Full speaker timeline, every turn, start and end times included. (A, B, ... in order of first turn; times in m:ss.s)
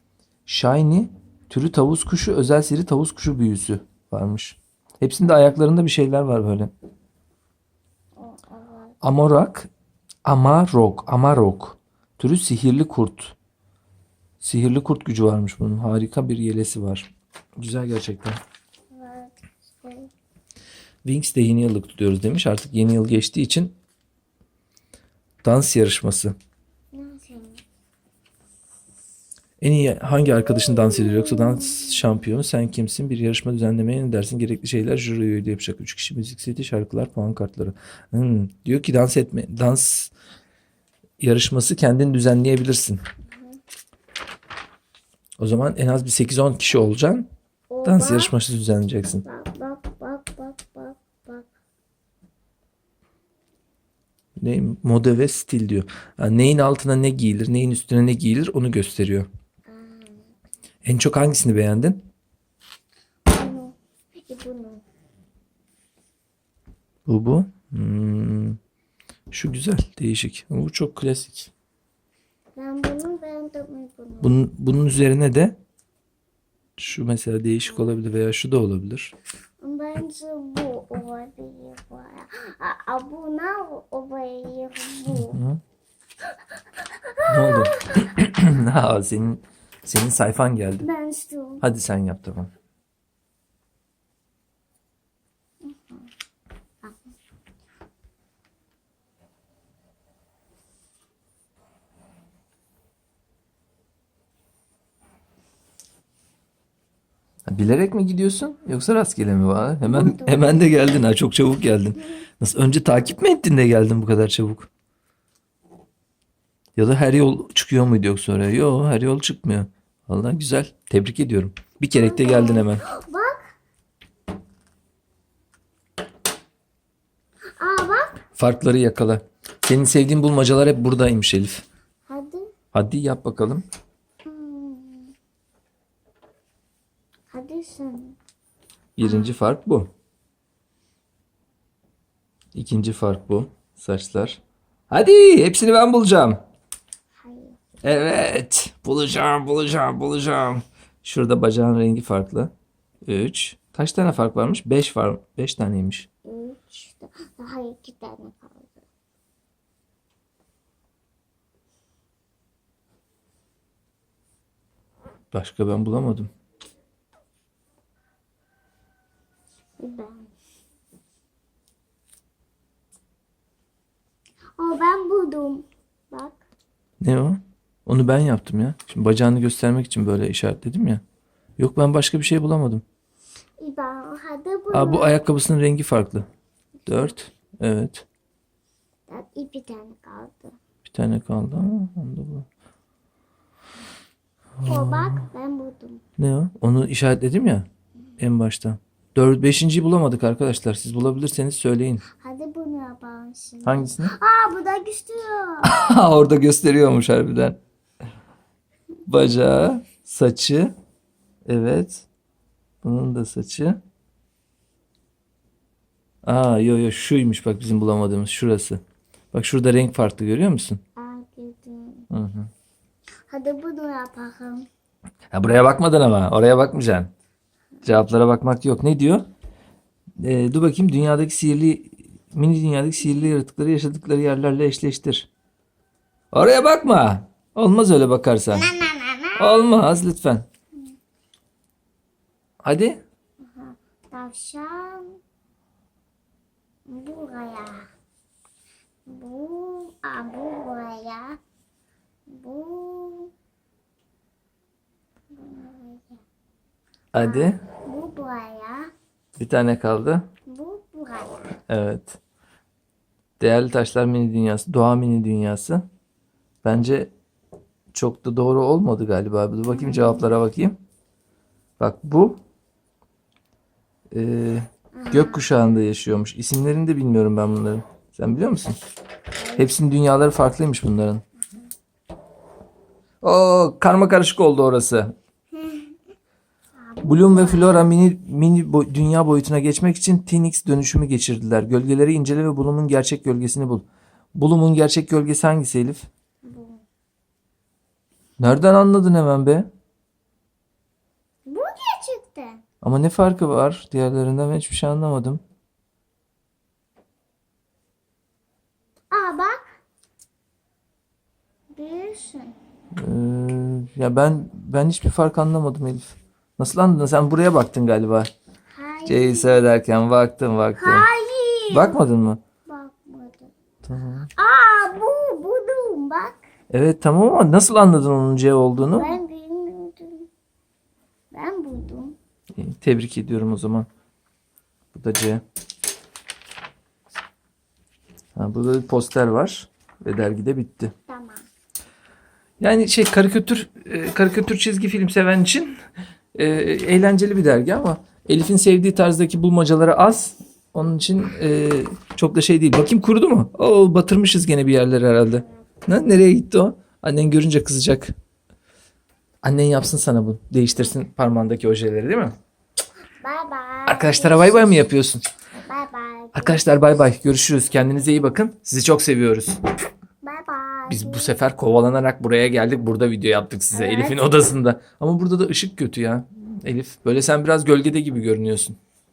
0:00.5-0:06.7 A
0:08.2-0:09.0 B
0:09.0-0:09.7 A
0:10.3-0:13.4 A
0:14.4-0:18.4 A
0:18.9-0:20.1 B
0:21.0-0:23.7 A
0:25.4-0:26.4 A
0:26.9-0:27.6 B
0:29.6-0:40.1 A
0:30.6-0:32.0 B
0:41.2-0:43.0 A
0:43.3-0:43.6 B
0:45.4-0:47.3 A
0:47.7-0:48.3 B
0:47.8-0:49.2 A
0:49.2-0:51.5 B
0:54.4-0:59.3 A
0:59.7-1:00.3 B
1:00.8-1:02.0 A
1:03.3-1:04.8 B
1:07.1-1:08.6 A
1:09.3-1:11.5 A
1:12.6-1:14.4 B
1:14.2-1:15.6 A
1:16.8-1:19.1 A
1:19.6-1:25.4 B
1:25.1-1:25.6 A
1:27.0-1:28.1 B
1:27.3-1:30.9 A
1:30.8-1:31.6 B
1:31.6-1:32.5 A
1:35.6-1:36.1 B
1:36.8-1:37.1 B
1:47.5-1:54.7 A
1:49.9-1:50.5 B
1:56.8-2:02.8 A
2:01.9-2:03.5 B
2:07.6-2:08.2 B
2:08.3-2:11.6 A
2:12.1-2:12.5 B
2:12.7-2:13.6 A
2:14.2-2:15.2 B
2:17.3-2:18.2 B
2:19.0-2:19.9 A
2:19.0-2:19.3 B
2:22.6-2:26.4 A
2:27.2-2:27.6 B
2:27.8-2:32.5 A
2:33.0-2:36.1 A
2:36.2-2:38.9 B
2:45.3-2:46.3 A
2:49.8-2:50.3 B
2:54.6-2:56.4 B
2:57.0-3:01.0 A
3:01.6-3:02.8 A
3:03.6-3:05.2 B
3:04.7-3:06.3 A
3:06.9-3:07.1 B
3:06.9-3:08.1 A
3:09.1-3:10.6 B
3:10.9-3:12.5 A
3:14.6-3:15.2 A
3:14.6-3:16.0 B
3:16.2-3:17.7 A
3:18.2-3:22.0 A
3:22.1-3:25.7 B
3:23.6-3:24.1 A
3:25.6-3:27.6 A
3:29.1-3:30.7 A
3:31.5-3:32.1 A
3:32.8-3:33.8 A
3:36.2-3:38.8 A
3:39.3-3:40.8 A
3:41.0-3:42.1 B
3:42.1-3:42.5 A
3:43.3-3:44.7 B
3:45.3-3:47.1 A
3:47.8-3:49.3 A
3:50.2-3:55.3 A
3:56.3-3:58.7 A
3:58.6-3:59.4 B
3:59.4-4:00.5 A
4:02.6-4:03.0 A
4:03.4-4:05.2 B
4:06.9-4:07.9 B
4:09.1-4:11.4 B
4:12.3-4:13.3 B
4:15.3-4:16.2 B
4:17.1-4:17.6 A
4:17.2-4:18.9 B
4:19.4-4:20.2 A
4:20.5-4:21.5 B
4:21.7-4:22.2 A
4:23.4-4:25.8 A
4:26.6-4:27.1 A
4:27.9-4:30.8 A
4:29.7-4:30.3 B
4:31.8-4:32.4 A
4:34.1-4:38.8 A
4:35.0-4:35.5 B
4:39.6-4:41.2 A
4:43.2-4:45.2 A
4:45.6-4:45.9 B
4:46.8-4:47.9 B
4:47.0-4:56.1 A
4:56.4-4:56.8 B
4:58.4-4:59.7 A
5:01.5-5:02.6 B
5:02.8-5:05.4 A
5:09.1-5:09.8 B
5:11.8-5:12.6 B
5:13.0-5:18.3 A
5:18.7-5:19.6 B
5:19.1-5:21.1 A
5:20.8-5:22.0 B
5:21.7-5:22.4 A
5:22.7-5:23.5 B
5:23.8-5:24.3 A
5:24.4-5:26.4 B
5:26.7-5:29.2 A
5:28.9-5:30.3 B
5:31.3-5:32.2 B
5:32.6-5:33.9 A
5:34.9-5:35.4 A
5:38.4-5:40.9 A
5:41.1-5:41.5 B
5:42.6-5:45.8 A
5:46.4-5:58.1 A
5:55.4-5:55.7 B
5:59.4-6:02.4 A
6:03.2-6:04.9 B
6:03.9-6:05.3 A
6:05.6-6:06.7 B
6:06.4-6:09.6 A
6:10.2-6:11.4 B
6:10.9-6:18.8 A
6:13.7-6:14.2 B